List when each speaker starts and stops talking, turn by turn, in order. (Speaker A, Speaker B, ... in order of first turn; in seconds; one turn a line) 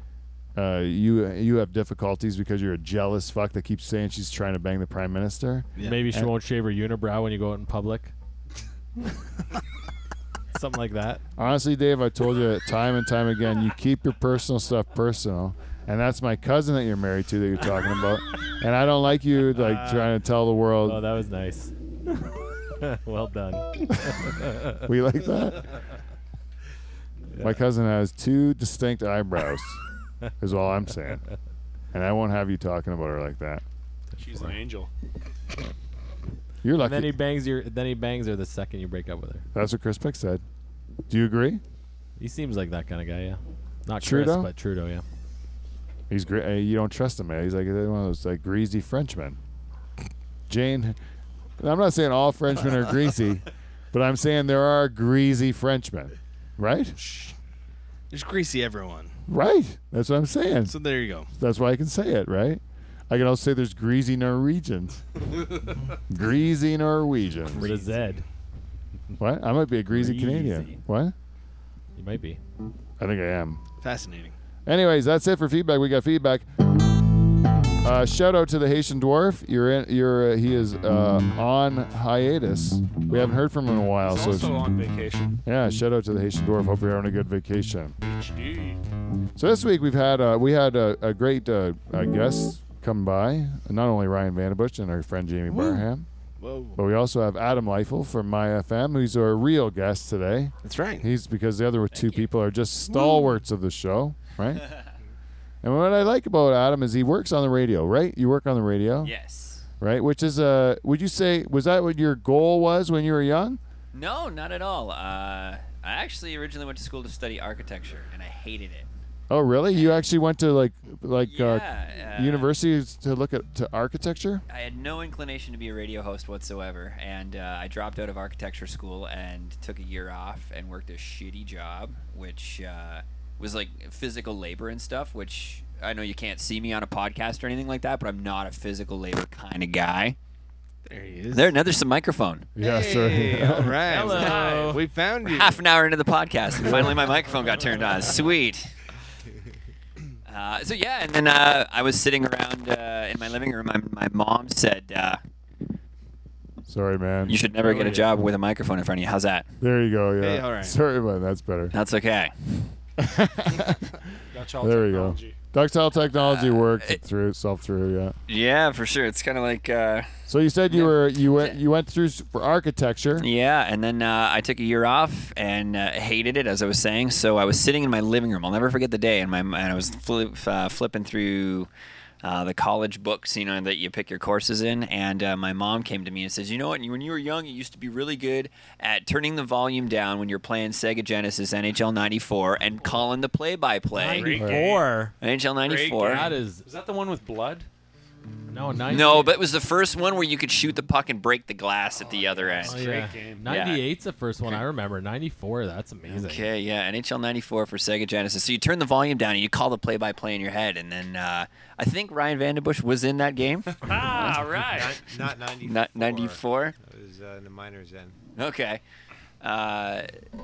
Speaker A: 0.6-6.3
Speaker B: 5.8-6.0
Speaker C: 5.8-8.1
Speaker C: 10.5-11.2
Speaker A: 11.4-21.0
Speaker B: 19.7-20.1
Speaker C: 20.9-21.7
Speaker C: 22.8-24.6
Speaker A: 24.7-25.7
Speaker A: 27.4-29.8
Speaker A: 30.4-31.2
Speaker A: 31.9-33.6
Speaker D: 34.2-34.9
Speaker A: 36.6-37.1
Speaker C: 36.8-39.5
Speaker A: 39.5-40.4
Speaker A: 41.1-41.6
Speaker C: 42.2-45.0
Speaker A: 44.0-44.5
Speaker A: 46.1-49.4
Speaker A: 50.5-51.0
Speaker A: 51.6-57.0
Speaker B: 57.0-57.3
Speaker B: 58.1-59.1
Speaker A: 59.3-60.8
Speaker B: 60.7-61.3
Speaker A: 61.3-65.0
Speaker A: 66.1-67.7
Speaker C: 67.5-68.2
Speaker B: 67.6-68.2
Speaker A: 69.2-71.1
Speaker C: 69.9-70.8
Speaker C: 72.0-72.4
Speaker A: 73.0-73.6
Speaker B: 73.8-74.3
Speaker A: 74.7-76.5
Speaker A: 77.8-84.5
Speaker D: 84.0-85.4
Speaker A: 85.5-88.0
Speaker D: 88.0-88.8
Speaker A: 89.4-96.1
Speaker B: 95.5-95.9
Speaker B: 96.4-96.8
Speaker A: 96.8-104.7
Speaker B: 100.6-101.1
Speaker E: 101.9-102.3
Speaker A: 105.6-109.1
Speaker E: 109.0-109.7
Speaker A: 109.8-113.6
Speaker E: 113.9-118.9
Speaker A: 119.3-124.4
Speaker E: 119.7-120.1
Speaker E: 121.2-122.5
Speaker E: 124.5-140.2
Speaker B: 140.9-141.6
Speaker E: 141.3-142.5
Speaker A: 142.6-143.8
Speaker B: 142.6-145.6
Speaker C: 143.8-144.8
Speaker E: 144.1-144.6
Speaker E: 145.2-148.7
Speaker E: 150.3-155.2
Speaker A: 156.7-157.4
Speaker E: 157.3-159.5
Speaker C: 157.5-158.1
Speaker A: 159.6-161.8
Speaker B: 160.2-160.8
Speaker E: 161.7-162.7
Speaker A: 163.0-164.0
Speaker D: 164.3-165.4
Speaker A: 164.6-168.2
Speaker E: 166.2-167.0
Speaker E: 168.3-170.1
Speaker A: 170.3-173.3
Speaker E: 170.7-171.6
Speaker E: 173.2-181.7
Speaker E: 182.2-194.5
Speaker C: 193.9-195.1
Speaker D: 194.0-195.0
Speaker E: 195.2-196.3
Speaker D: 195.6-197.7
Speaker C: 196.1-196.7
Speaker C: 198.5-199.4
Speaker E: 198.9-203.8
Speaker D: 201.9-203.5
Speaker C: 202.6-206.5
Speaker E: 206.1-213.9
Speaker D: 213.8-215.0
Speaker F: 214.7-218.2
Speaker E: 215.6-216.8
Speaker E: 218.4-218.8
Speaker E: 219.4-220.1